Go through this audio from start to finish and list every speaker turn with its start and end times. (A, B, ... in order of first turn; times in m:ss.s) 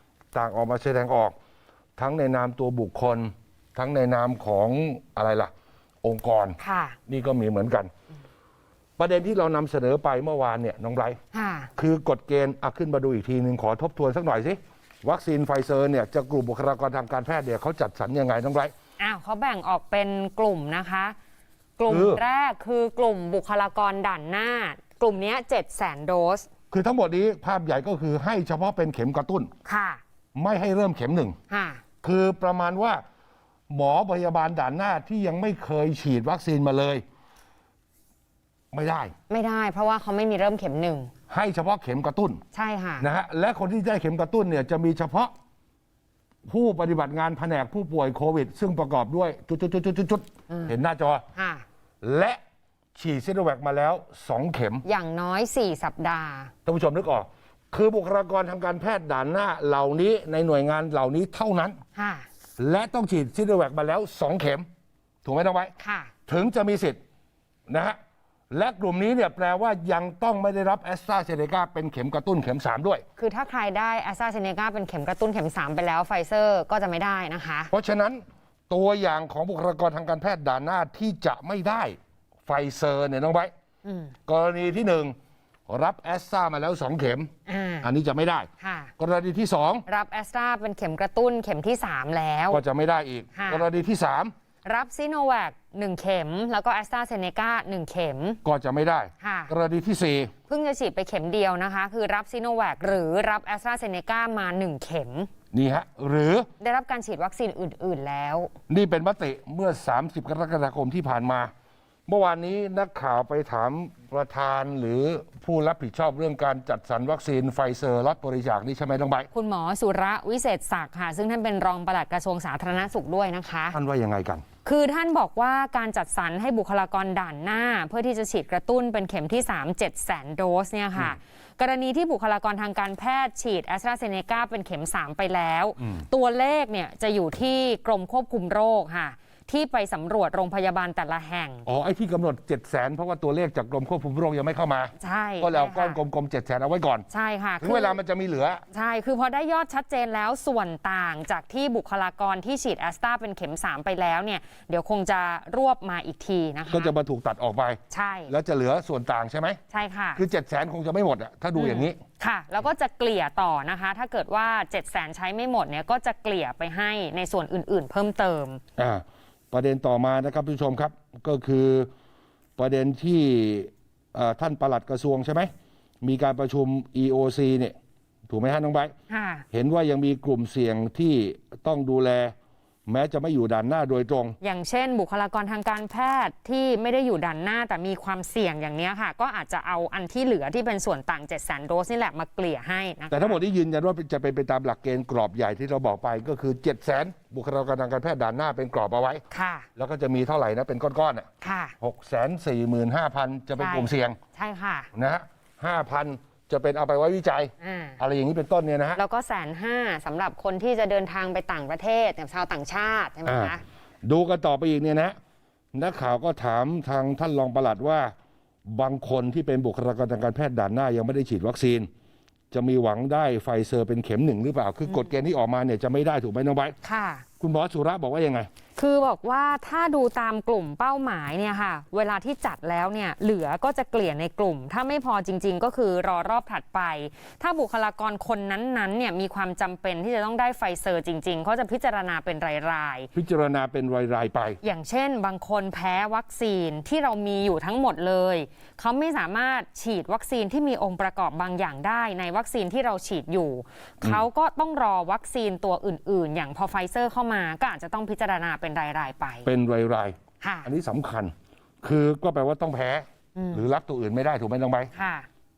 0:00.3-0:01.4 A
0:02.0-0:05.5 A
0:06.0-0:07.9 A
0:06.6-0:07.0 B
0:09.0-0:11.2 A
0:11.3-0:11.7 B
0:11.8-0:18.7 A
0:19.0-0:21.2 B
0:21.8-0:26.5 B
0:21.9-0:22.2 A
0:26.7-0:29.5 A
0:29.6-0:30.0 B
0:30.4-0:31.4 A
0:31.5-0:31.8 B
0:32.0-0:33.0 A
0:33.7-0:37.0 A
0:38.7-0:39.1 A
0:39.3-0:41.1 B
0:41.3-0:42.4 A
0:42.5-0:43.1 B
0:43.0-0:45.3 A
0:46.5-0:51.2 A
0:51.4-0:51.6 B
0:52.0-0:52.4 A
0:53.0-0:54.8 A
0:54.8-0:56.5 B
0:56.6-1:01.8 A
1:02.0-1:02.3 B
1:02.6-1:04.7 A
1:05.2-1:05.7 A
1:05.8-1:06.1 B
1:06.3-1:07.0 A
1:07.7-1:08.0 A
1:08.5-1:13.0 A
1:13.2-1:17.7 B
1:17.7-1:23.5 A
1:23.8-1:24.1 B
1:24.3-1:25.2 A
1:25.7-1:27.3 A
1:27.5-1:27.9 B
1:27.8-1:29.8 A
1:28.6-1:28.9 B
1:29.9-1:32.6 B
1:32.5-1:34.3 A
1:33.4-1:33.7 B
1:34.6-1:38.4 B
1:38.4-1:40.3 A
1:39.2-1:39.5 B
1:40.5-1:45.3 B
1:45.5-1:46.5 A
1:46.6-1:48.5 B
1:48.7-1:51.5 A
1:52.1-1:59.3 A
1:59.3-2:03.8 B
2:03.7-2:04.4 A
2:04.6-2:21.6 B
2:21.7-2:27.1 A
2:25.0-2:26.0 B
2:27.1-2:28.0 B
2:27.6-2:28.6 A
2:28.7-2:36.9 B
2:36.7-2:39.6 A
2:37.9-2:38.3 B
2:39.7-2:40.2 B
2:40.2-2:42.0 A
2:41.6-2:48.6 B
2:48.8-2:51.9 A
2:52.6-2:55.5 A
2:56.0-2:57.8 A
2:58.3-2:58.9 A
2:59.1-2:59.5 B
2:59.5-3:02.4 A
3:02.9-3:04.4 A
3:04.4-3:13.4 B
3:13.1-3:19.2 A
3:19.3-3:19.7 B
3:19.8-3:21.3 A
3:21.4-3:21.8 B
3:21.8-3:24.2 A
3:23.6-3:24.9 B
3:24.9-3:29.0 A
3:27.6-3:28.0 B
3:29.0-3:33.6 B
3:33.3-3:35.2 A
3:35.7-3:38.1 A
3:38.6-3:41.9 A
3:42.5-3:46.8 A
3:46.8-3:47.2 B
3:47.4-3:48.5 A
3:48.8-4:03.1 B
4:03.1-4:04.6 A
4:04.6-4:19.5 B
4:19.4-4:24.9 A
4:20.4-4:20.7 B
4:23.4-4:23.6 B
4:24.9-4:25.3 B